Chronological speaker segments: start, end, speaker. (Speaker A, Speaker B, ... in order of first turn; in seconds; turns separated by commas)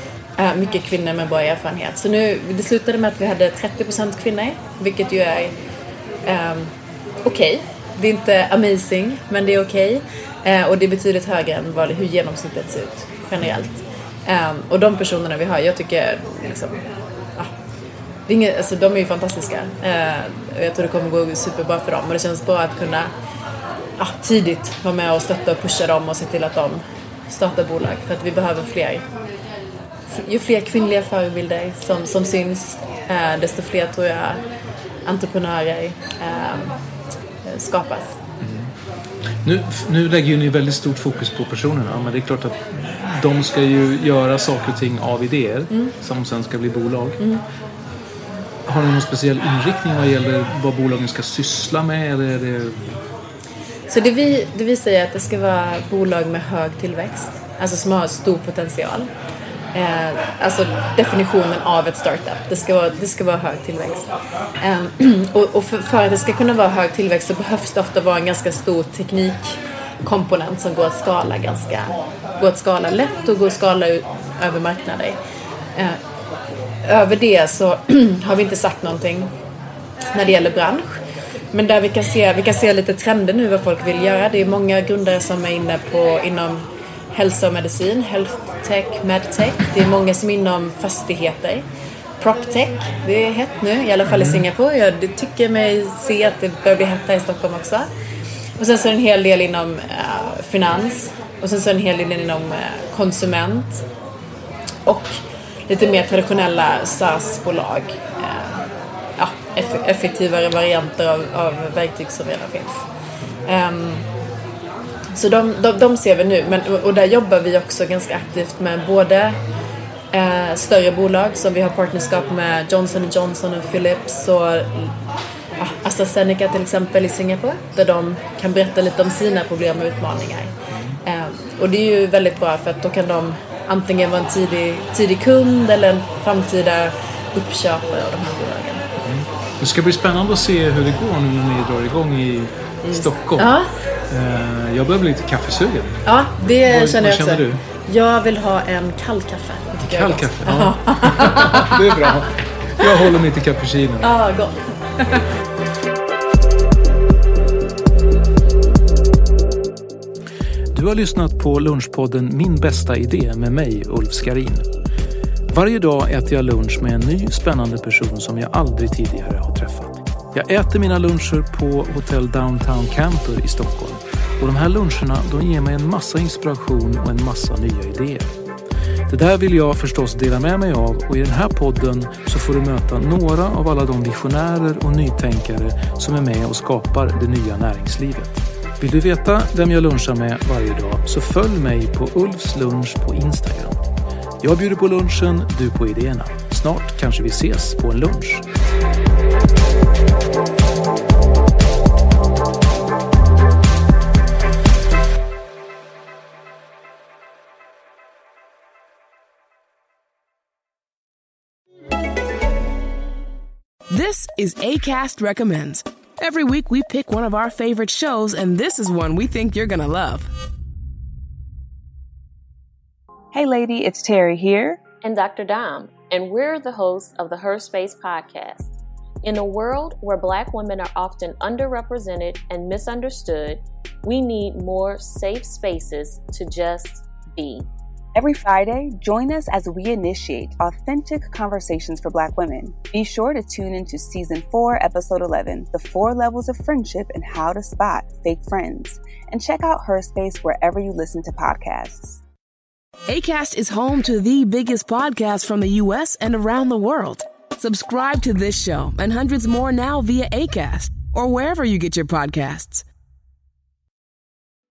Speaker A: 0.4-5.6, Speaker A: 6.2-6.7, Speaker A: 7.2-16.9, Speaker B: 13.4-13.7, Speaker A: 18.3-23.1, Speaker A: 24.0-29.0, Speaker A: 30.1-34.4, Speaker A: 35.0-36.7, Speaker A: 37.5-38.2, Speaker B: 38.4-38.7, Speaker B: 39.4-47.2, Speaker B: 48.7-52.8, Speaker A: 53.9-59.1, Speaker A: 59.7-75.2, Speaker A: 76.8-79.3, Speaker A: 80.1-81.0, Speaker A: 81.5-91.7, Speaker A: 92.2-97.9, Speaker B: 94.1-94.5, Speaker A: 98.6-103.8, Speaker A: 104.9-105.2, Speaker A: 105.7-108.7, Speaker A: 109.2-112.8, Speaker A: 113.5-114.0, Speaker A: 115.1-119.4, Speaker A: 120.1-125.0, Speaker A: 125.6-130.5, Speaker B: 130.7-131.0, Speaker A: 131.0-138.8, Speaker B: 139.0-143.6, Speaker A: 142.8-143.7, Speaker B: 144.1-146.0, Speaker A: 146.1-152.2, Speaker B: 146.5-147.6, Speaker B: 149.8-154.1, Speaker A: 154.0-155.3, Speaker B: 160.7-164.7, Speaker B: 165.5-178.3, Speaker B: 179.1-193.8, Speaker B: 194.4-198.4, Speaker C: 213.9-220.3, Speaker D: 223.3-224.9, Speaker E: 224.9-237.7, Speaker D: 238.2-252.2, Speaker C: 253.1-262.9